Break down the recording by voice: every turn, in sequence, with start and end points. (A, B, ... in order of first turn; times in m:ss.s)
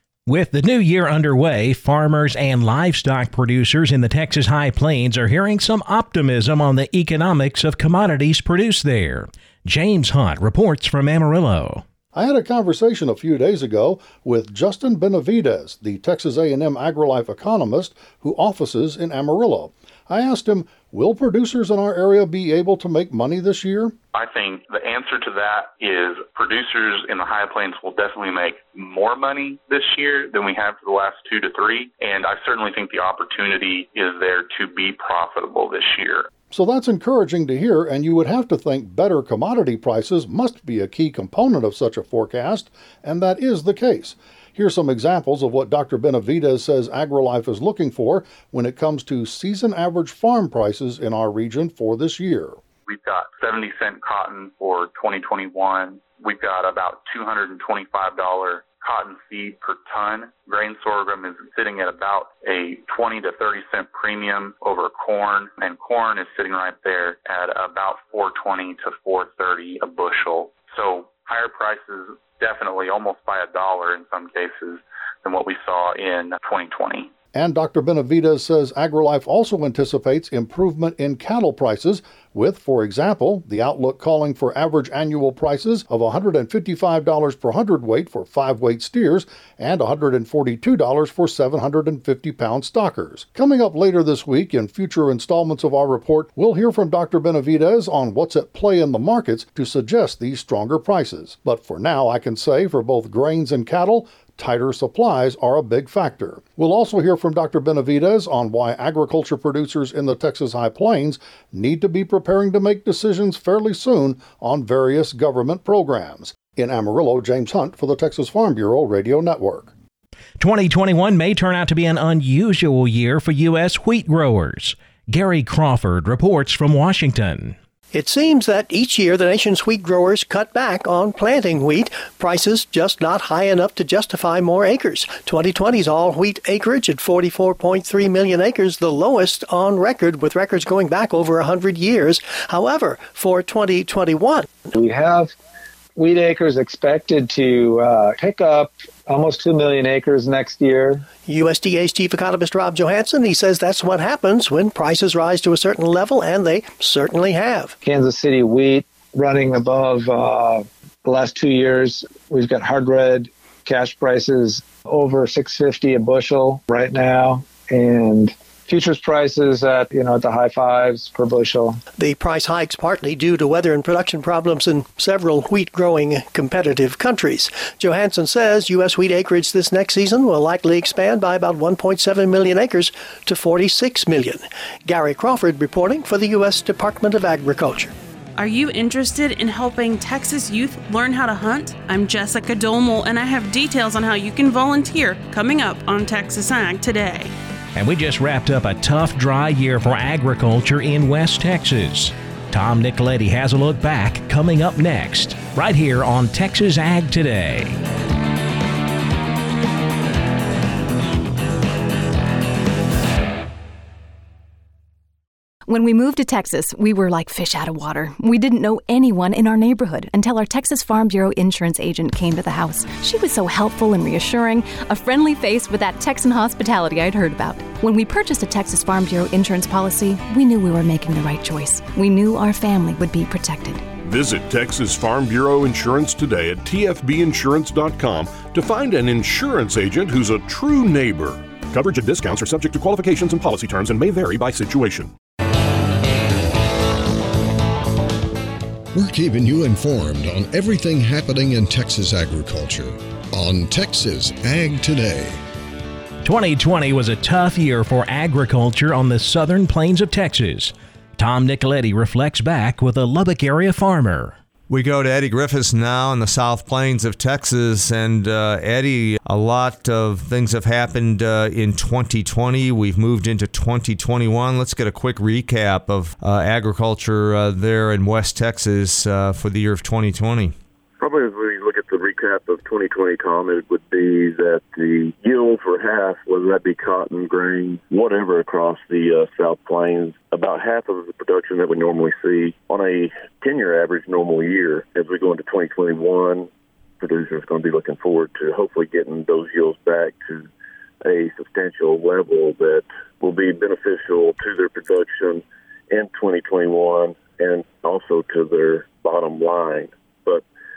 0:00.3-0:11.8 A
0:12.1-0:24.0 B
0:24.1-0:36.3 C
0:36.5-0:52.6 B
0:52.9-1:17.1 C
1:17.3-1:59.7 B
2:00.4-2:07.6 A
2:07.9-2:24.5 D
2:24.7-2:25.3 E
2:26.0-2:31.1 E
2:31.1-2:37.8 D
2:37.8-2:51.8 E
2:52.0-3:07.9 D
3:08.4-3:17.3 F
3:17.8-3:27.8 A
3:35.7-3:53.9 G
3:54.0-4:05.1 H
4:08.9-4:15.4 I
4:16.2-4:24.4 A
4:24.7-4:40.6 J
4:41.0-4:56.5 K
4:57.0-5:00.5 K
5:01.0-5:10.4 K